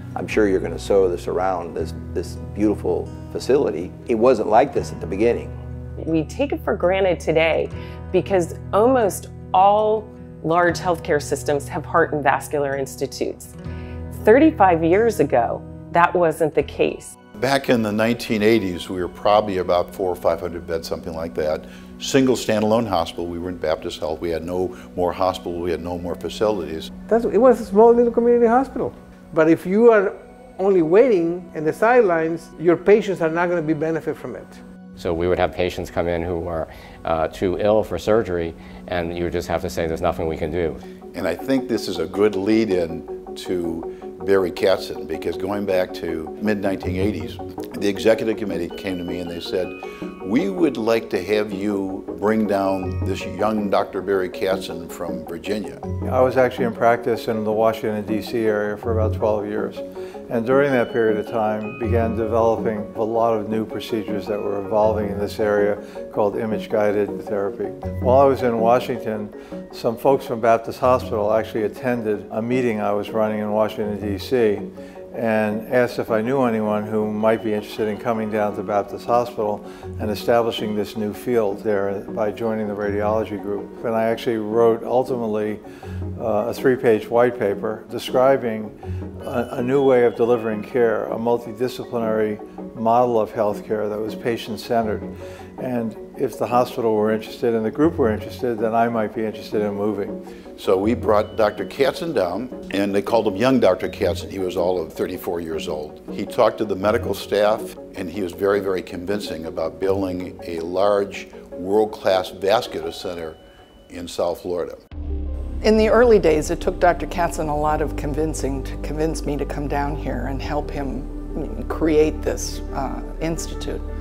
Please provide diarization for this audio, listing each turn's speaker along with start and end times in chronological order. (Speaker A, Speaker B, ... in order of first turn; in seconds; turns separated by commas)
Speaker A: 0.1-5.5, Speaker B: 6.0-13.5, Speaker B: 14.1-17.1, Speaker C: 17.4-26.9, Speaker D: 27.1-34.6, Speaker E: 35.0-40.8, Speaker C: 41.1-49.7, Speaker C: 50.2-55.8, Speaker F: 56.0-85.6, Speaker F: 86.2-100.2, Speaker C: 100.6-113.4, Speaker C: 113.9-114.8, Speaker G: 115.6-123.8